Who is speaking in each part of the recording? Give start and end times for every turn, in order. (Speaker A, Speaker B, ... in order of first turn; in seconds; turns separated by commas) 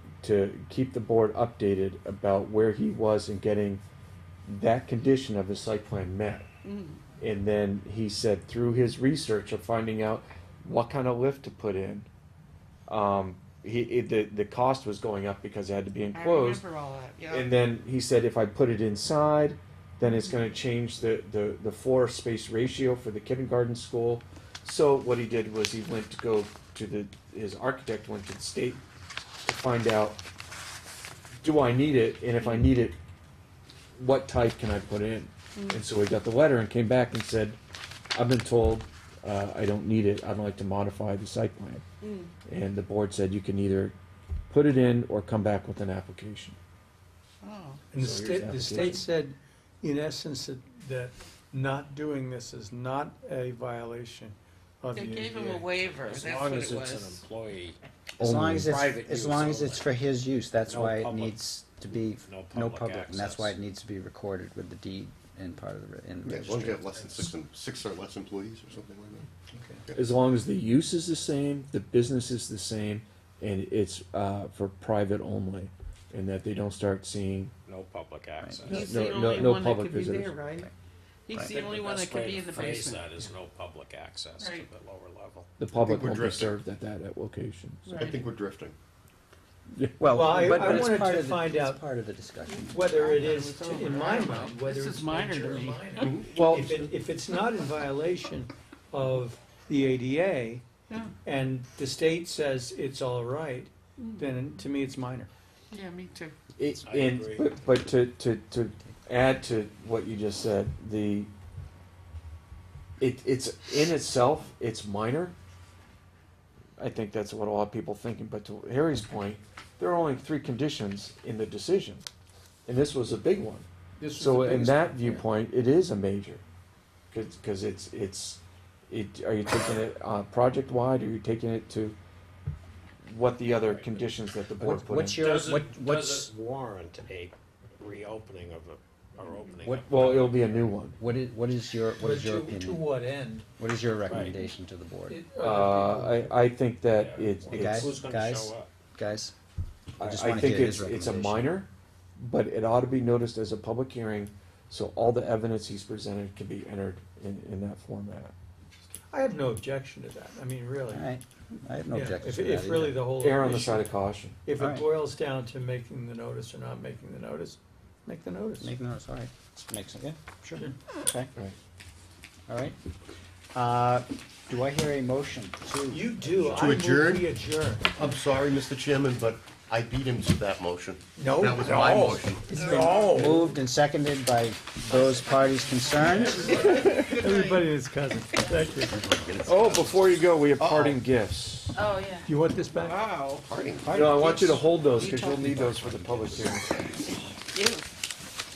Speaker A: 0.2-3.8, Speaker A: 4.5-6.5, Speaker B: 6.6-7.0, Speaker A: 7.2-12.1, Speaker A: 12.9-16.6, Speaker B: 16.1-17.5, Speaker A: 17.3-28.8, Speaker B: 20.0-20.3, Speaker A: 29.4-30.2, Speaker A: 31.4-33.0, Speaker B: 32.4-32.7, Speaker A: 34.0-37.6, Speaker B: 35.5-35.8, Speaker A: 38.1-41.8, Speaker B: 42.0-42.3, Speaker A: 42.5-43.9, Speaker A: 44.5-46.6, Speaker B: 47.4-47.8, Speaker C: 47.9-55.6, Speaker A: 47.9-49.0, Speaker B: 54.9-57.2, Speaker D: 55.3-59.9, Speaker E: 58.2-66.8, Speaker D: 60.6-61.4, Speaker D: 61.9-63.6, Speaker F: 66.2-69.3, Speaker C: 69.5-69.9, Speaker A: 69.9-77.5, Speaker D: 77.7-78.9, Speaker E: 78.4-78.7, Speaker B: 78.7-80.7, Speaker A: 78.7-80.4, Speaker B: 81.3-83.1, Speaker D: 81.3-85.5, Speaker B: 84.4-84.7, Speaker A: 85.6-88.0, Speaker F: 85.8-86.5, Speaker B: 87.8-88.2, Speaker F: 87.9-88.7, Speaker A: 89.8-90.1, Speaker E: 90.0-92.9, Speaker C: 90.1-91.8, Speaker C: 92.7-100.6, Speaker B: 93.0-96.1, Speaker F: 96.0-96.3, Speaker A: 96.2-96.8, Speaker C: 101.2-105.3, Speaker B: 105.7-106.3, Speaker A: 106.6-111.3, Speaker D: 106.7-107.5, Speaker A: 113.0-115.3, Speaker A: 116.8-122.0, Speaker A: 122.7-126.4, Speaker D: 124.0-125.1, Speaker A: 127.1-132.0, Speaker A: 133.0-135.2, Speaker D: 133.6-134.0, Speaker E: 134.6-136.3, Speaker D: 135.1-140.4, Speaker A: 139.6-141.0, Speaker E: 141.0-142.8, Speaker C: 142.0-143.4, Speaker E: 143.6-145.2, Speaker D: 144.1-144.5, Speaker C: 145.1-146.5, Speaker A: 145.4-147.9, Speaker D: 146.9-148.7, Speaker E: 147.5-149.3, Speaker E: 150.0-151.5, Speaker A: 150.0-158.3, Speaker C: 159.1-161.1, Speaker E: 160.9-163.1, Speaker C: 161.9-168.7, Speaker A: 163.2-164.4, Speaker E: 164.6-164.8, Speaker E: 168.6-171.3, Speaker E: 172.5-172.8, Speaker E: 173.5-176.7, Speaker C: 175.9-177.9, Speaker F: 176.4-177.3, Speaker F: 177.9-182.8, Speaker C: 181.2-183.6, Speaker A: 181.7-182.2, Speaker E: 182.6-186.6, Speaker B: 182.6-183.1, Speaker B: 186.2-187.6, Speaker A: 186.3-187.2, Speaker C: 186.6-188.9, Speaker F: 188.8-191.0, Speaker A: 189.4-191.7, Speaker B: 191.7-192.3, Speaker C: 192.2-193.1, Speaker B: 192.8-193.4, Speaker F: 193.3-194.2, Speaker E: 193.9-194.6, Speaker A: 193.9-196.7, Speaker B: 194.8-195.9, Speaker B: 197.5-197.8